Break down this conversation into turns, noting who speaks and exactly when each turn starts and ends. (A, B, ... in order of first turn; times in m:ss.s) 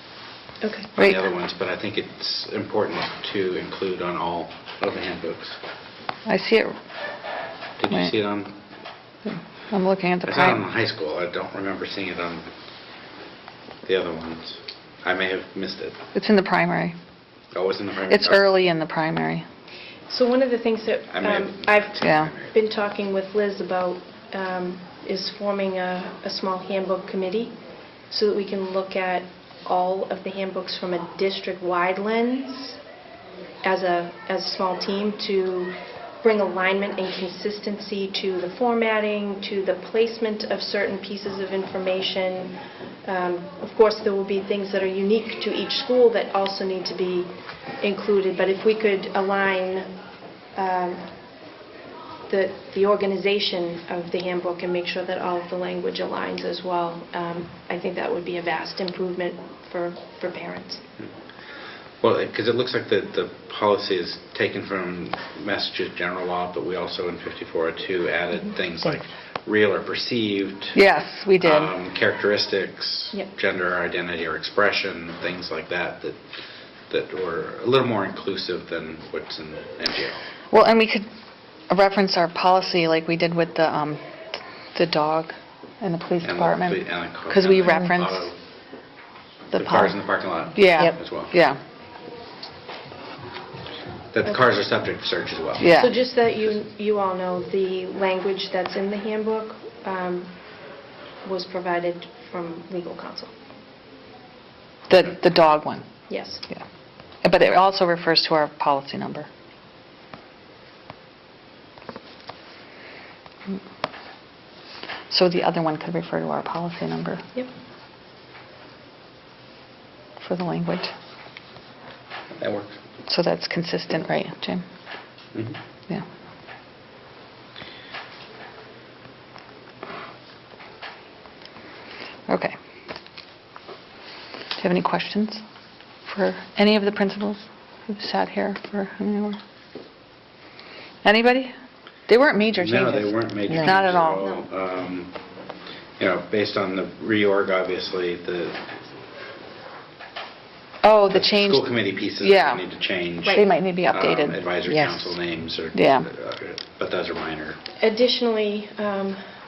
0:00.6-0:00.9 A
0:01.0-0:01.2 B
0:01.0-0:05.6 C
0:06.2-0:06.7 B
0:07.8-0:08.5 C
0:07.9-0:08.1 B
0:09.3-0:10.6 B
0:10.2-0:12.4 C
0:13.8-0:16.0 C
0:16.1-0:16.9 B
0:17.5-0:18.5 C
0:18.1-0:19.4 B
0:20.1-0:27.5 A
0:21.1-0:22.5 C
0:22.0-0:22.3 B
0:28.1-0:32.8 A
0:33.6-0:49.9 A
0:50.5-0:51.1 A
0:52.3-1:00.8 A
1:02.0-1:10.8 C
1:10.7-1:11.7 B
1:11.4-1:16.2 C
1:16.9-1:20.2 C
1:20.5-1:21.0 B
1:21.7-1:24.0 B
1:24.7-1:28.3 B
1:26.2-1:28.4 C
1:29.5-1:31.3 C
1:29.5-1:29.9 B
1:30.5-1:31.6 B
1:34.1-1:35.7 C
1:35.6-1:35.9 B
1:35.6-1:40.3 A
1:41.2-1:43.3 A
1:44.9-1:45.8 B
1:46.1-1:46.4 A
1:47.2-1:49.3 B
1:55.1-1:57.2 B
2:00.2-2:00.9 B
2:02.4-2:02.8 C
2:03.1-2:04.6 B
2:12.3-2:12.5 B
2:14.6-2:15.4 B
2:16.0-2:19.4 B
2:21.0-2:21.5 B
2:22.1-2:24.2 B
2:22.5-2:25.1 C
2:24.1-2:24.4 A
2:26.0-2:28.6 C
2:30.8-2:32.6 B
2:31.1-2:37.6 C
2:33.2-2:33.5 A
2:33.3-2:34.4 B
2:35.7-2:36.1 B
2:37.8-2:39.2 A